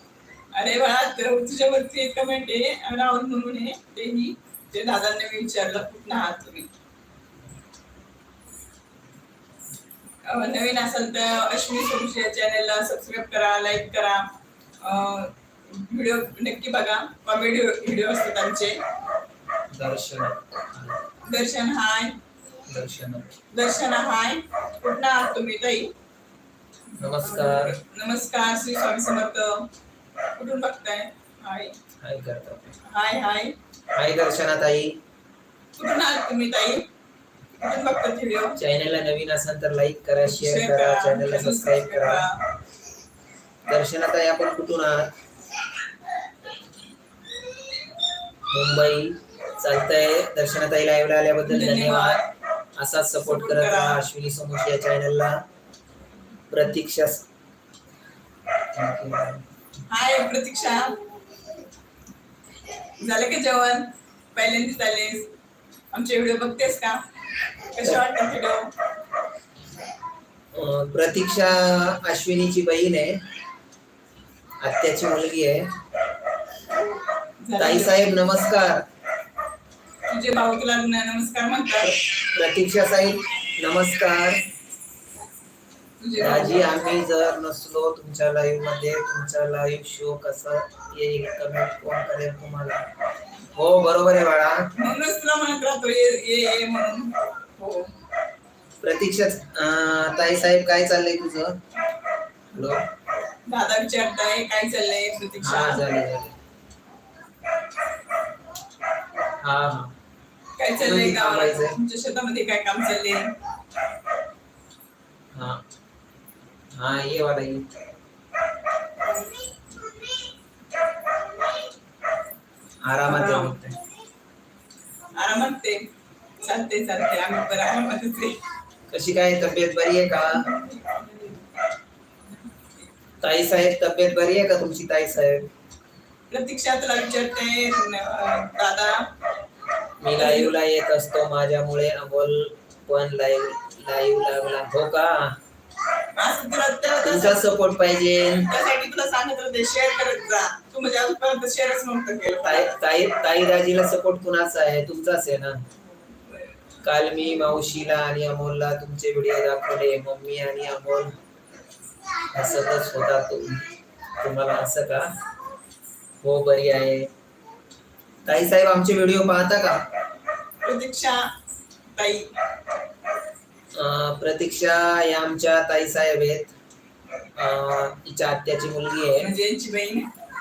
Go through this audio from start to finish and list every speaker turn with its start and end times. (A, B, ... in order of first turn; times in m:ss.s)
0:00.5-0:06.7 A
0:10.3-0:14.3 A
0:14.8-0:18.8 A
0:19.7-0:21.0 B
0:21.2-0:22.2 A
0:22.7-0:23.3 B
0:23.5-0:25.9 A
0:27.0-0:27.7 B
0:27.2-0:29.7 A
0:30.4-0:31.7 A
0:32.0-0:32.8 B
0:32.8-0:33.5 A
0:33.9-0:35.0 B
0:35.8-0:36.9 A
0:37.6-0:38.6 A
0:38.6-0:42.2 B
0:40.2-0:42.4 A
0:43.7-0:45.1 B
0:48.5-0:52.2 B
0:51.5-0:52.3 A
0:52.8-0:55.4 B
0:53.2-0:54.0 A
0:56.5-0:57.2 B
0:58.7-0:59.4 B
0:59.9-1:01.0 A
1:03.0-1:05.3 A
1:05.9-1:07.0 A
1:07.7-1:08.7 A
1:10.5-1:13.2 B
1:14.6-1:15.6 B
1:17.4-1:18.1 A
1:17.6-1:18.8 B
1:20.1-1:21.9 A
1:22.0-1:24.4 B
1:26.0-1:26.7 A
1:26.2-1:32.8 B
1:33.5-1:34.7 B
1:34.8-1:37.9 A
1:38.8-1:41.6 B
1:42.5-1:42.8 B
1:43.4-1:45.8 A
1:45.4-1:46.3 B
1:49.4-1:49.9 B
1:50.6-1:53.3 A
1:50.8-1:51.8 B
1:55.3-1:55.6 B
1:56.8-1:57.6 B
2:02.8-2:03.8 B
2:03.0-2:03.6 A
2:05.2-2:05.9 A
2:06.4-2:08.4 A
2:08.9-2:10.4 B
2:10.3-2:11.5 A
2:12.4-2:12.8 A
2:13.2-2:15.5 B
2:16.3-2:19.0 A
2:20.0-2:25.4 B
2:20.2-2:20.5 A
2:26.2-2:27.4 A
2:27.0-2:28.5 B
2:28.4-2:32.7 A
2:32.4-2:35.6 B
2:36.0-2:36.6 A
2:36.8-2:41.1 B
2:42.3-2:45.1 B
2:46.2-2:47.1 B
2:48.2-2:49.8 B
2:50.6-2:51.3 A
2:51.9-2:52.3 A
2:53.7-2:56.5 B
2:57.4-2:59.3 B
2:59.2-3:00.1 A